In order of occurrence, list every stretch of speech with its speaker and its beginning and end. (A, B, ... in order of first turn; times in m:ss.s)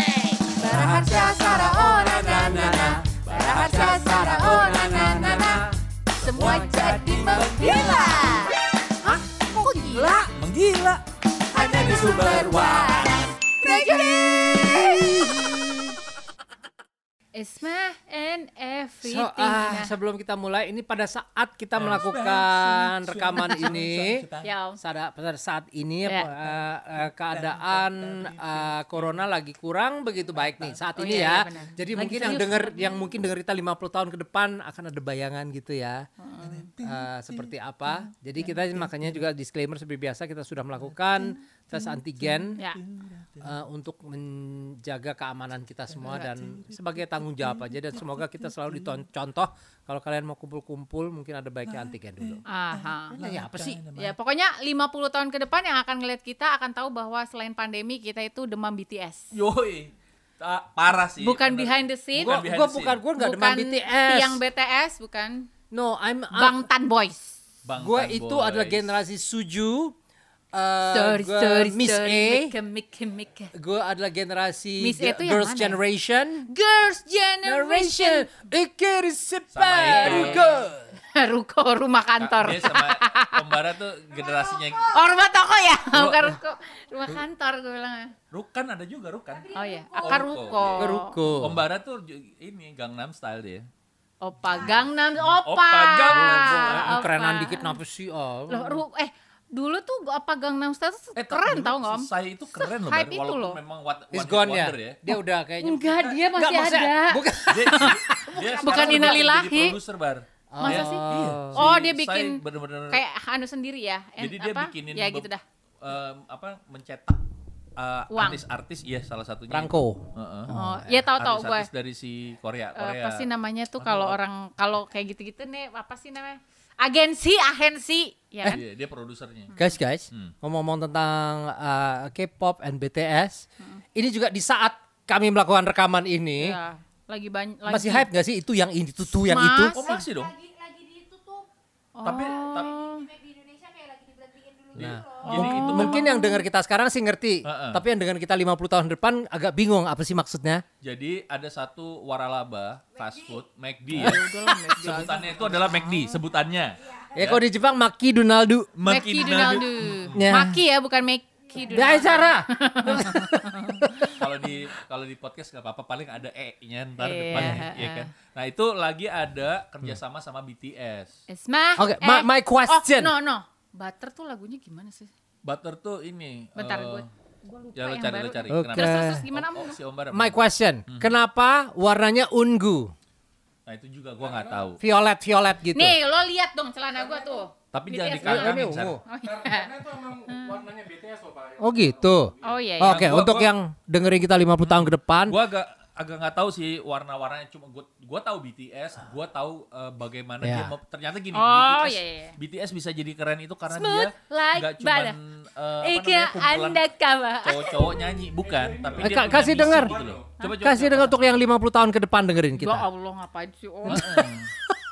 0:00.4-0:10.2 A
0:03.9-0:05.4 B
0:06.4-0:08.0 C
0:10.2-0:13.3 C
0:11.5-0:15.1 A
0:13.6-0:15.9 B
0:17.3-0:19.9 A
0:19.0-0:24.2 B
0:21.7-0:24.5 C
0:24.4-0:24.8 A
0:24.8-0:36.1 B
0:26.7-0:29.3 C
0:30.3-0:32.7 C
0:31.0-0:32.9 A
0:36.2-0:36.7 A
0:36.4-0:39.2 C
0:36.8-0:42.6 B
0:40.8-0:43.5 C
0:43.4-0:52.4 B
0:45.9-0:49.0 C
0:51.7-0:52.4 C
0:52.5-0:53.2 A
0:53.1-0:54.2 C
0:53.2-0:53.8 B
0:54.0-0:59.2 A
0:59.3-1:03.0 C
1:01.1-1:02.4 A
1:02.2-1:04.4 B
1:03.2-1:05.5 A
1:05.7-1:06.6 B
1:06.3-1:07.4 A
1:07.6-1:09.0 C
1:07.8-1:10.0 B
1:10.5-1:12.5 B
1:10.9-1:13.5 A
1:13.6-1:16.5 B
1:14.8-1:15.8 A
1:16.5-1:18.3 A
1:17.4-1:20.9 B
1:19.5-1:20.5 C
1:19.8-1:20.6 A
1:21.1-1:23.5 A
1:22.2-1:25.0 C
1:24.6-1:28.1 A
1:25.9-1:26.4 C
1:28.3-1:33.7 C
1:29.5-1:31.2 A
1:30.8-1:31.6 B
1:34.2-1:37.8 A
1:35.3-1:37.0 C
1:36.1-1:38.8 B
1:38.5-1:43.6 A
1:41.2-1:45.1 C
1:44.1-1:49.2 B
1:45.6-1:49.8 A
1:47.5-1:53.0 C
1:50.5-1:51.7 B
1:50.6-1:51.0 A
1:51.5-1:55.4 A
1:54.2-1:55.3 C
1:55.8-1:57.2 C
1:57.8-2:00.5 C
1:58.1-1:58.4 A
1:59.5-2:00.9 B
2:00.5-2:01.7 A
2:01.2-2:03.3 C
2:02.8-2:08.6 A
2:03.8-2:04.2 C
2:08.4-2:09.5 C
2:09.6-2:13.4 B
2:14.0-2:16.6 B
2:16.4-2:18.1 A
2:17.7-2:19.8 B
2:19.1-2:20.0 A
2:19.7-2:20.5 C
2:20.5-2:21.4 D
2:22.0-2:23.3 A
2:22.0-2:22.8 C
2:23.4-2:24.6 D
2:24.7-2:26.1 C
2:24.7-2:30.6 B
2:25.2-2:26.4 A
2:27.5-2:27.8 C
2:30.8-2:37.4 C
2:33.9-2:36.1 A
2:34.0-2:34.2 B
2:37.1-2:38.7 B
2:38.8-2:40.3 C
2:38.9-2:44.1 A
2:40.1-2:40.6 B
2:41.7-2:44.3 B
2:44.1-2:51.1 C
2:47.0-2:48.1 A
2:47.4-2:47.6 B
2:51.3-2:55.1 A
2:51.8-2:53.1 B
2:55.4-2:57.0 C
2:56.6-2:59.8 A
2:57.8-3:00.4 C
2:58.5-2:59.2 B
3:00.1-3:02.9 B
3:00.9-3:01.1 C
3:03.7-3:04.8 C
3:04.8-3:06.0 B
3:05.7-3:10.6 A
3:07.7-3:09.0 C
3:08.2-3:09.0 B
3:09.4-3:11.9 E
3:11.6-3:15.4 B
3:12.4-3:13.0 A
3:12.8-3:13.6 C
3:14.6-3:26.8 C
3:20.4-3:20.8 B
3:21.3-3:22.4 A
3:23.7-3:25.2 A
3:25.8-3:27.9 A
3:27.4-3:31.3 C
3:28.6-3:30.1 E
3:29.0-3:30.0 B
3:30.6-3:32.9 B
3:32.6-3:34.3 A
3:33.9-3:34.3 B
3:33.9-3:34.5 C